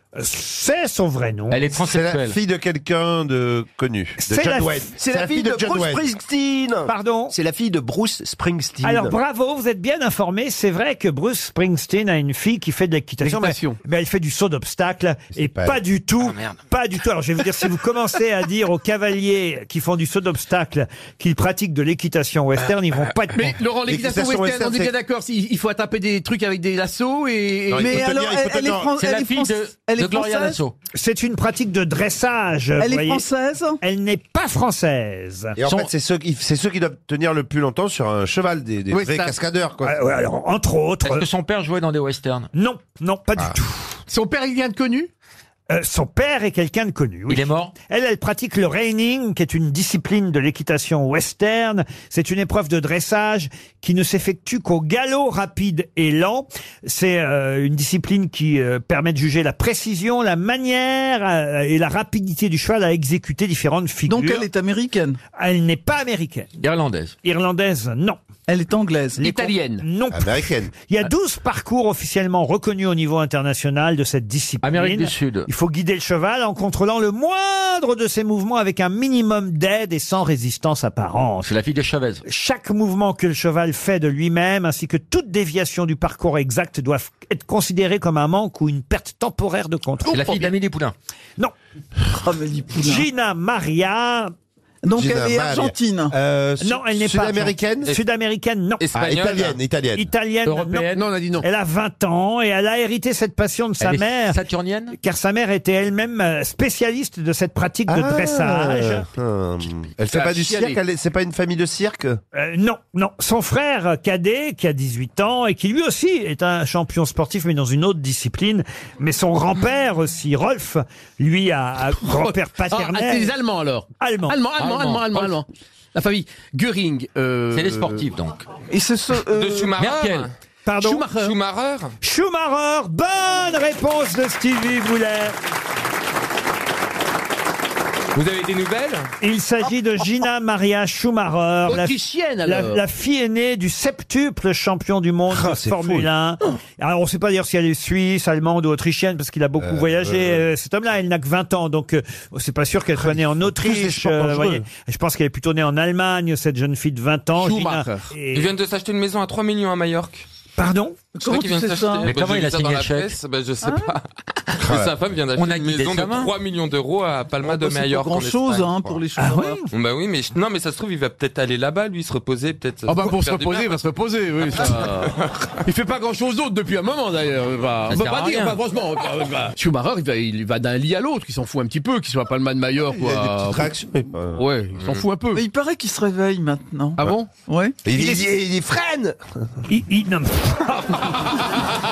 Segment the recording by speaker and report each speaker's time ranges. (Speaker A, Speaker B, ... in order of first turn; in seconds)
Speaker A: 0.1-1.6, 4.2-4.9, 6.9-7.3, 8.8-23.5, 30.9-33.2, 33.8-35.5, 39.8-41.2, 42.5-44.0, 45.7-64.5, 65.4-66.5, 67.2-68.2, 69.2-81.5, 82.2-90.5, 92.8-94.3, 96.6-98.9, 99.9-100.9, 101.4-104.4, 104.9-109.0, 112.3-123.3, 124.0-124.3, 130.7-131.1, 132.0-135.3, 139.2-158.5, 160.6-161.0, 169.2-169.7, 189.7-191.1
Speaker B: 1.5-2.4, 28.9-30.7, 41.0-42.5, 47.3-47.7, 66.6-67.1, 74.6-75.5, 81.4-82.2, 90.0-90.9, 99.0-99.5, 100.5-101.1, 103.8-105.0, 124.6-125.3, 127.5-128.4, 129.8-130.3, 162.0-163.2, 165.3-166.3, 177.9-178.6
Speaker C: 1.8-6.1, 15.4-15.8, 23.8-24.9, 27.7-28.9, 35.5-40.0, 70.1-70.7, 94.9-97.9, 98.9-100.1, 107.9-112.2, 145.4-146.1, 149.6-150.4, 153.8-154.0, 182.9-184.4, 187.8-189.2
Speaker D: 5.0-9.1
Speaker E: 13.2-13.8, 23.3-27.9, 44.1-45.1, 69.2-69.8, 100.9-101.4, 110.1-110.8, 122.0-128.0, 130.8-131.3, 141.7-142.8, 157.4-158.1, 172.8-175.1, 175.6-183.7, 184.3-185.4, 187.0-187.3
Speaker F: 27.8-30.6, 32.8-33.8, 64.1-65.2, 68.5-69.3, 92.1-93.0, 94.8-96.1, 161.2-162.1, 167.4-169.6, 185.3-187.8
Speaker G: 98.9-99.4, 129.3-130.3, 131.1-131.9, 138.1-139.1, 158.3-160.2, 161.2-164.0, 164.6-168.9, 169.7-173.8